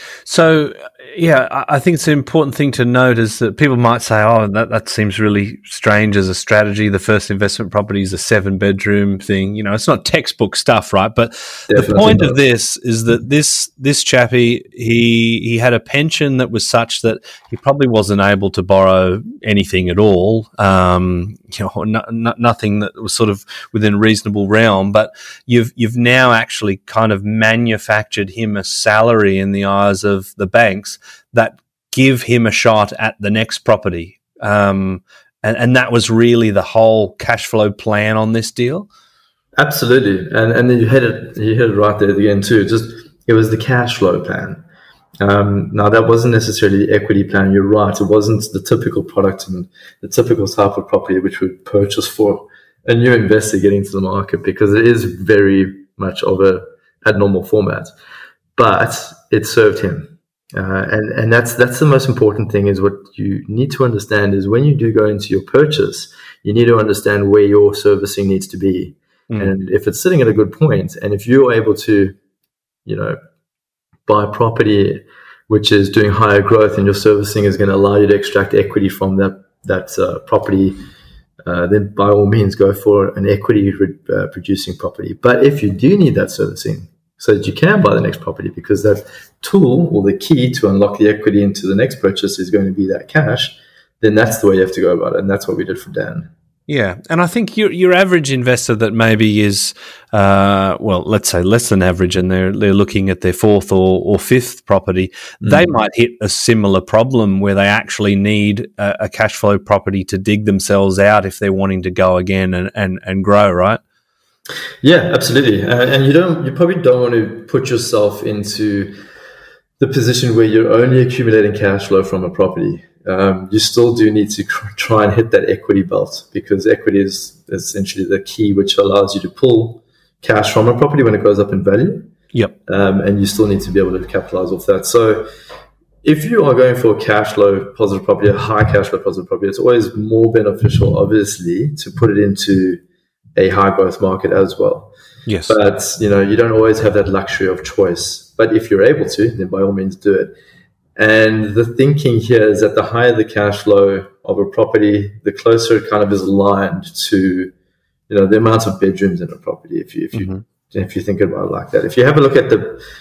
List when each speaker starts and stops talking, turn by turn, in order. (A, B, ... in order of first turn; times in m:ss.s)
0:00.2-0:38.9 A
0:11.7-0:12.4 B
0:39.6-0:44.6 B
0:45.2-0:57.9 B
0:58.6-1:12.2 B
1:12.9-1:13.2 B
1:14.1-1:20.8 B
1:21.5-1:36.3 B
1:36.7-1:53.8 A
1:45.4-1:45.7 B
1:54.8-1:59.0 B
1:59.8-2:12.1 B
2:12.7-2:15.3 B
2:16.0-2:22.8 B
2:23.4-2:24.9 B
2:25.3-2:25.6 A
2:25.5-2:30.3 B
2:31.0-2:37.5 B
2:38.1-2:42.8 B
2:40.1-2:40.4 A